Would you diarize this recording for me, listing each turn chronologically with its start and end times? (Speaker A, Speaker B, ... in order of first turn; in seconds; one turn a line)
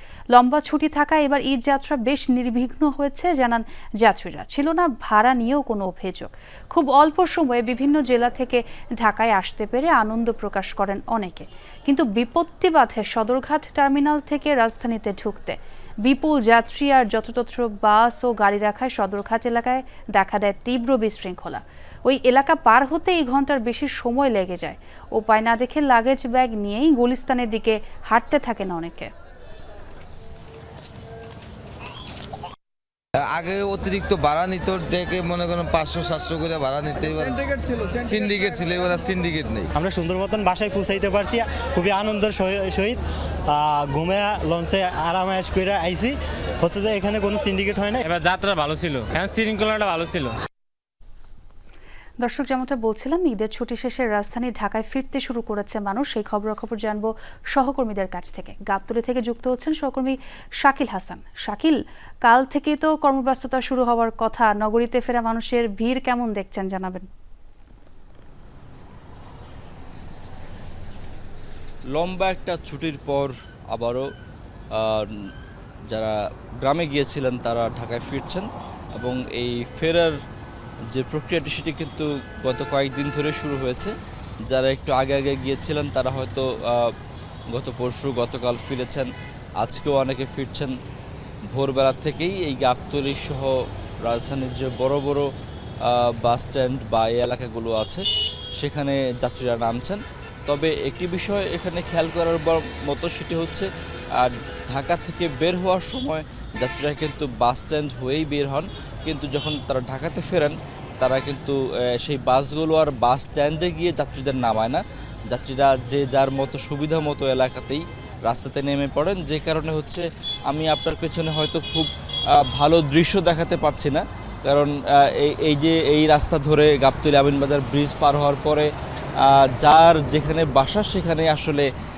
Speaker A: 0.3-29.1
Speaker B: 33.3-37.4
Speaker B: 37.9-39.7
Speaker C: 40.1-41.0
Speaker C: 41.8-42.9
Speaker C: 44.0-45.3
Speaker D: 48.0-50.4
Speaker A: 52.2-67.1
Speaker E: 72.0-74.1
Speaker E: 74.8-75.3
Speaker E: 75.9-80.2
Speaker E: 80.9-83.9
Speaker E: 84.5-86.9
Speaker E: 87.5-89.1
Speaker E: 89.6-90.7
Speaker E: 91.5-93.5
Speaker E: 94.1-95.3
Speaker E: 95.9-98.0
Speaker E: 98.6-121.9
Speaker E: 122.5-128.7
Speaker E: 129.2-131.7